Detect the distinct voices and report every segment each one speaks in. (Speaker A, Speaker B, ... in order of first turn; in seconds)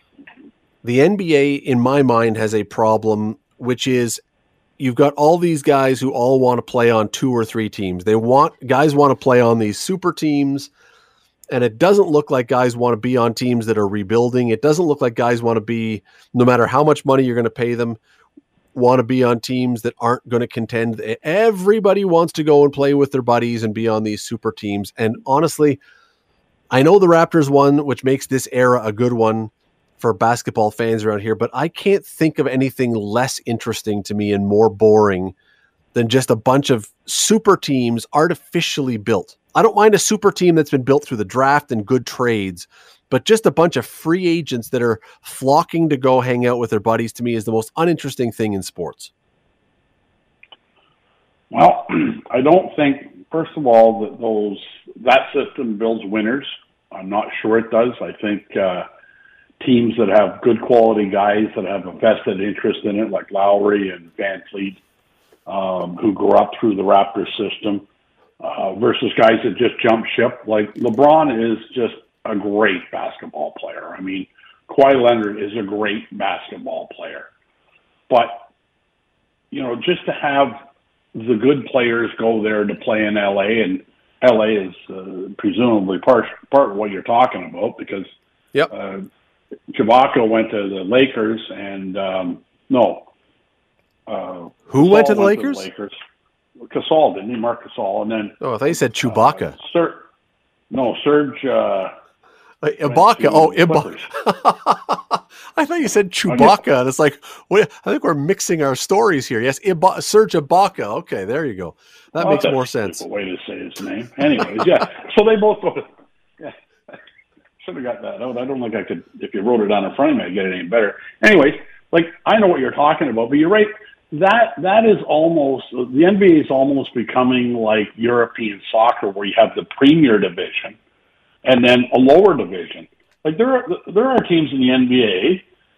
Speaker A: 0.8-4.2, 4.8-10.7, 11.5-18.0, 18.8-25.8, 26.7-35.3, 35.9-49.1, 94.7-95.7, 98.4-99.6, 102.6-113.0
Speaker B: 51.5-58.9, 59.6-64.8, 65.5-67.9, 68.4-77.3, 78.1-78.5, 79.5-80.6, 81.1-88.1, 88.7-89.1, 89.7-93.1, 94.1-96.0, 96.7-100.1, 100.7-101.9, 102.8-104.1, 106.3-106.6, 112.2-115.9, 116.4-116.9, 117.6-130.8, 131.4-135.4